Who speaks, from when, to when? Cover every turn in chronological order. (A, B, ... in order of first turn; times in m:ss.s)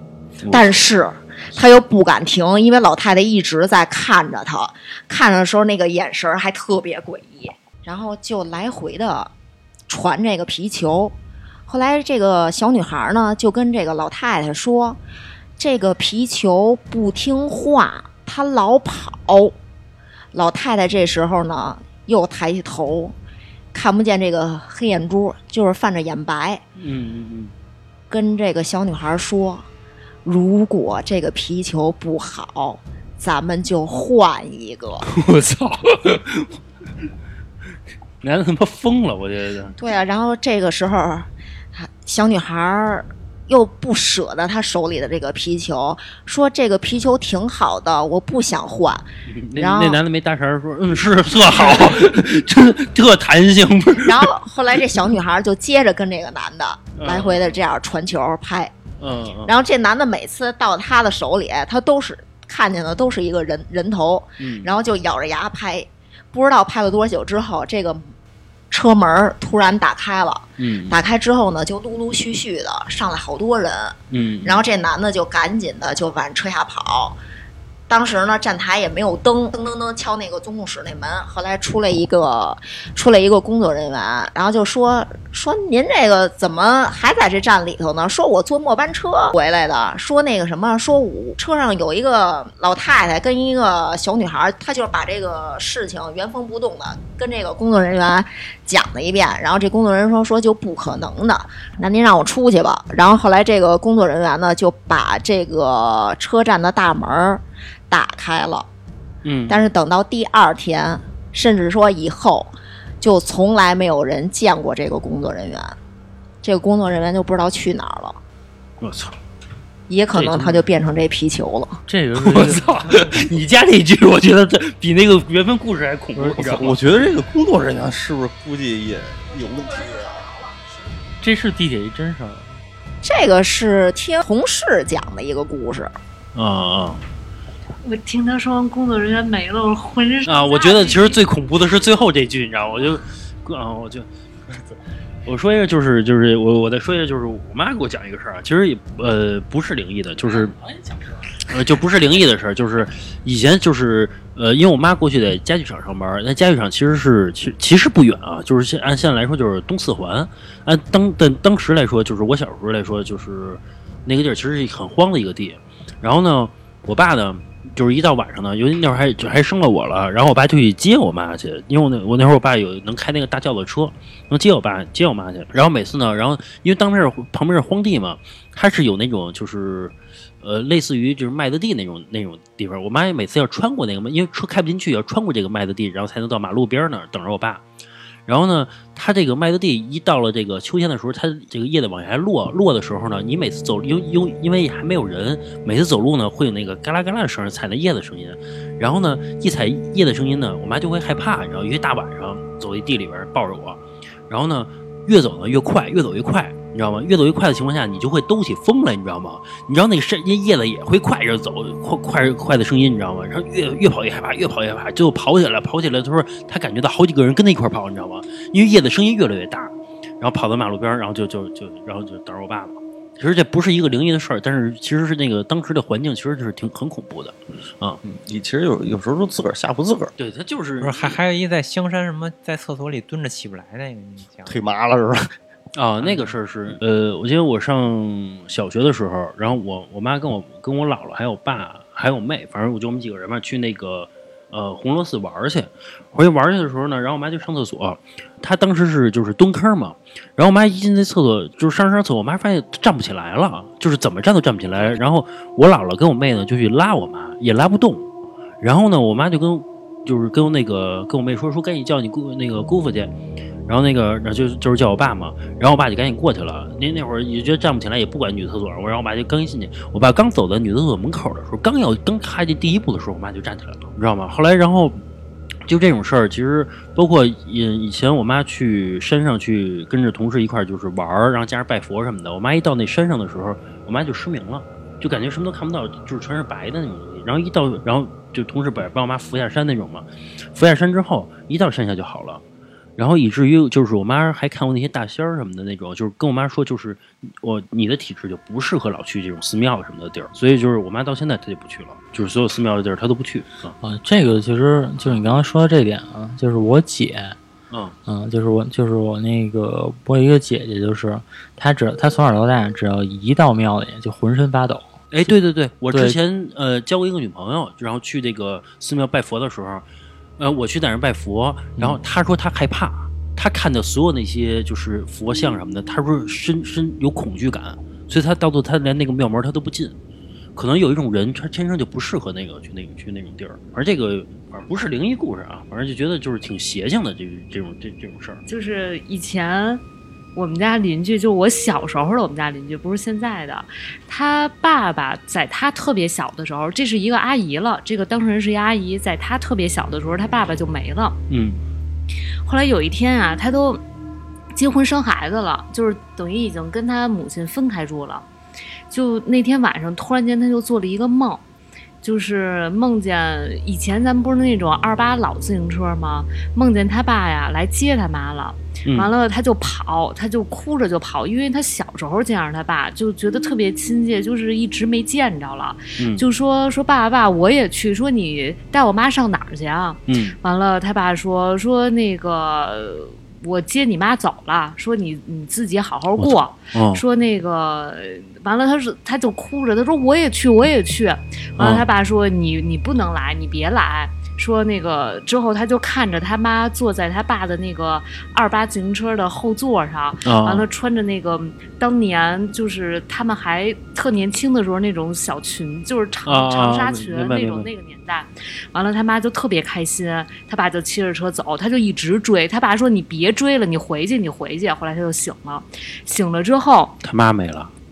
0:00.4-0:00.9 A
0:00.5-0:09.3 B
0:09.9-0:11.2 B
0:11.7-0:15.0 B
0:15.6-0:19.6 B
0:20.3-0:23.2 B
0:23.7-0:26.6 B
0:26.8-0:27.5 A
0:28.1-0:29.7 B
0:30.2-0:35.0 B
0:35.1-0:36.6 A
0:38.2-0:39.8 A
0:39.8-0:50.0 B
0:49.3-0:54.3 A
0:54.0-0:58.7 B
0:57.0-0:57.6 A
0:59.0-0:59.6 A
0:59.5-1:08.1 B
1:04.4-1:04.7 A
1:08.7-1:17.2 B
1:10.6-1:11.0 A
1:14.1-1:14.6 A
1:17.9-1:48.7 B
1:49.2-1:49.6 A
1:49.5-1:55.8 B
1:56.4-1:58.2 B
1:58.8-1:59.2 A
1:59.9-2:01.8 B
2:00.1-2:00.4 A
2:01.9-2:03.2 C
2:02.2-2:06.8 A
2:06.2-2:06.4 C
2:06.4-2:10.4 D
2:11.2-2:12.6 C
2:13.0-2:15.9 B
2:16.3-2:17.0 A
2:17.8-2:21.2 E
2:20.2-2:24.1 A
2:25.2-2:30.6 A
2:31.4-3:07.6 A
3:08.3-3:48.0 A
3:48.0-3:50.1 D
3:50.2-3:51.1 A
3:50.8-3:54.6 F
3:54.5-3:55.3 D
3:55.8-4:18.1 A
3:56.0-3:56.3 F
4:18.6-4:23.1 A
4:23.7-4:35.0 A
4:35.7-4:52.4 A
4:53.0-5:03.8 A
5:03.8-5:07.4 C
5:07.7-5:08.0 A
5:08.1-5:15.3 C
5:15.1-5:19.9 A
5:15.9-5:16.2 C
5:20.4-5:30.0 A
5:21.8-5:22.0 C
5:30.6-5:38.4 A
5:38.5-5:39.8 E
5:40.4-5:51.2 E
5:51.3-5:51.6 A
5:52.4-5:53.8 E
5:54.6-5:58.2 E
5:58.9-6:01.4 E
6:02.0-6:57.0 E
6:08.9-6:09.1 A
6:16.0-6:16.2 A
6:20.1-6:20.4 A
6:26.2-6:27.0 A
6:31.6-6:31.9 A
6:40.2-6:40.7 A
6:46.2-6:47.7 A
6:57.0-6:57.7 A